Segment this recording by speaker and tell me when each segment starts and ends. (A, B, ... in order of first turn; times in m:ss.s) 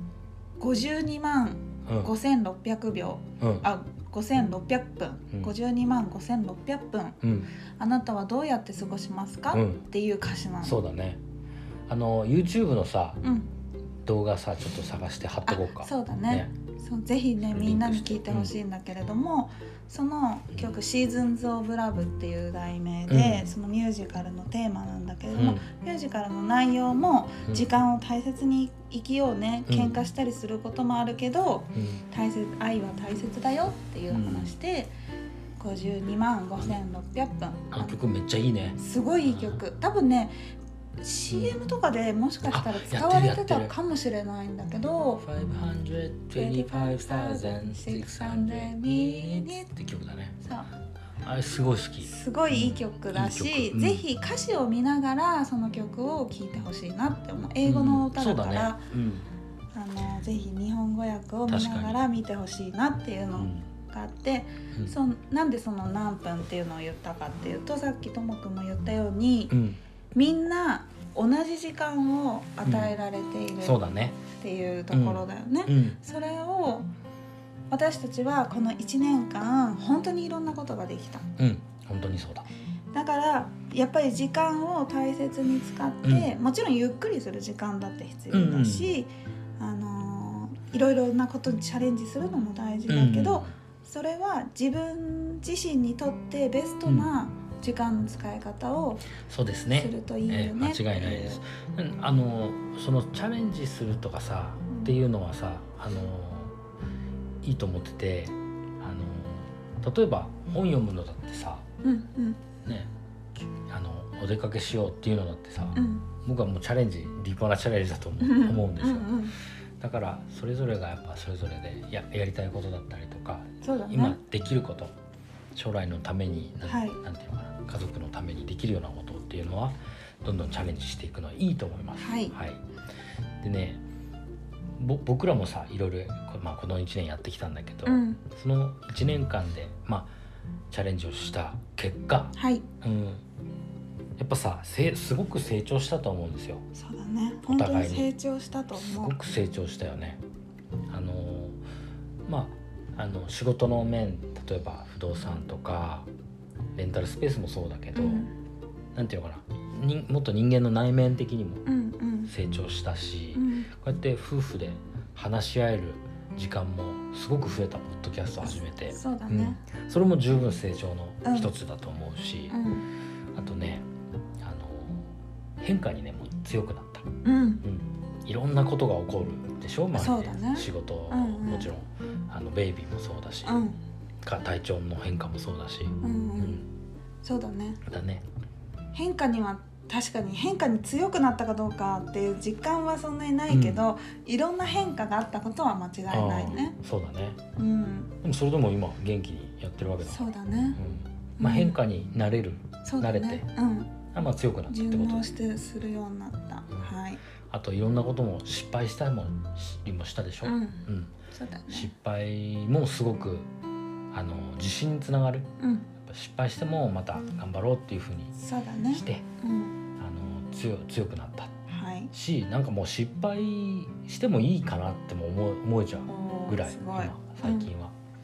0:00.6-0:07.2 A
0:03.4-0:03.7 B
0:07.2-0:07.5 B
0:07.8-0:10.8 A
0:09.5-0:09.8 B
0:10.6-0:11.2 B
0:11.9-0:13.2 B
0:13.2-0:13.5 A
0:14.0-0:16.5 B
0:15.5-0:34.9 A
0:17.4-0:18.5 B
0:23.1-0:23.5 B
0:25.4-0:25.6 B
0:29.7-0:30.0 B
0:31.8-0:32.0 B
0:34.1-0:34.6 B
0:35.6-0:38.0 A
0:37.7-0:39.6 B
0:38.8-0:40.3 A
0:41.0-0:45.2 A
0:41.3-0:41.6 B
0:42.5-0:43.7 B
0:45.2-0:50.4 B
0:46.4-0:49.7 A
0:50.4-0:50.7 A
0:51.2-0:54.1 B
0:52.0-0:58.8 A
0:57.6-0:59.3 B
0:59.7-1:09.6 A
1:01.5-1:02.0 B
1:03.4-1:03.7 B
1:09.5-1:09.8 B
1:10.1-1:13.8 A
1:12.6-1:12.9 B
1:13.6-1:14.2 B
1:14.3-1:16.9 A
1:14.9-1:16.0 B
1:17.7-1:21.3 A
1:21.4-1:22.5 B
1:22.9-1:39.1 A
1:26.0-1:26.3 B
1:28.3-1:29.0 B
1:32.9-1:33.6 B
1:39.2-1:46.6 B
1:39.7-1:41.4 A
1:47.4-1:51.6 B
1:51.8-1:52.4 A
1:53.7-2:04.9 B
1:55.8-1:56.1 A
1:58.2-1:59.4 A
2:03.6-2:04.2 A
2:05.5-2:12.6 B
2:06.7-2:07.0 A
2:12.0-2:12.3 A
2:13.4-2:13.8 B
2:14.8-2:20.1 B
2:17.9-2:18.2 A
2:20.7-2:23.2 B
2:22.4-2:22.6 A
2:24.2-2:26.6 B
2:26.7-2:29.2 A
2:27.5-2:28.1 B
2:28.8-2:30.2 B
2:30.9-2:31.6 B
2:32.3-2:36.1 B
2:36.8-2:38.3 B
2:38.0-2:38.3 A
2:39.0-2:41.6 B
2:41.7-2:42.3 A
2:42.3-2:52.6 B
2:43.3-2:43.7 A
2:48.9-2:49.6 A
2:51.2-2:51.5 A
2:52.5-2:52.8 A
2:53.3-2:53.9 B
2:54.4-2:57.1 B
2:57.2-2:57.6 A
2:57.6-3:03.6 B
2:59.9-3:01.7 A
3:03.5-3:03.8 A
3:04.2-3:06.7 B
3:06.0-3:06.6 A
3:07.2-3:07.8 A
3:07.8-3:08.2 B
3:08.9-3:16.8 A
3:13.5-3:13.8 B
3:16.1-3:17.4 B
3:17.6-3:18.1 A
3:18.2-3:23.5 B
3:20.0-3:20.8 A
3:21.4-3:21.8 A
3:22.8-3:24.0 A
3:24.1-3:25.2 B
3:24.7-3:27.2 A
3:27.5-3:31.1 B
3:30.4-3:31.9 A
3:31.7-3:33.5 B
3:34.1-3:35.5 B
3:35.6-3:35.9 A
3:36.0-3:38.3 B
3:38.4-3:39.8 A
3:38.9-3:39.2 B
3:40.0-3:41.6 B
3:41.7-3:42.1 A
3:42.1-3:47.9 B
3:46.1-3:47.7 A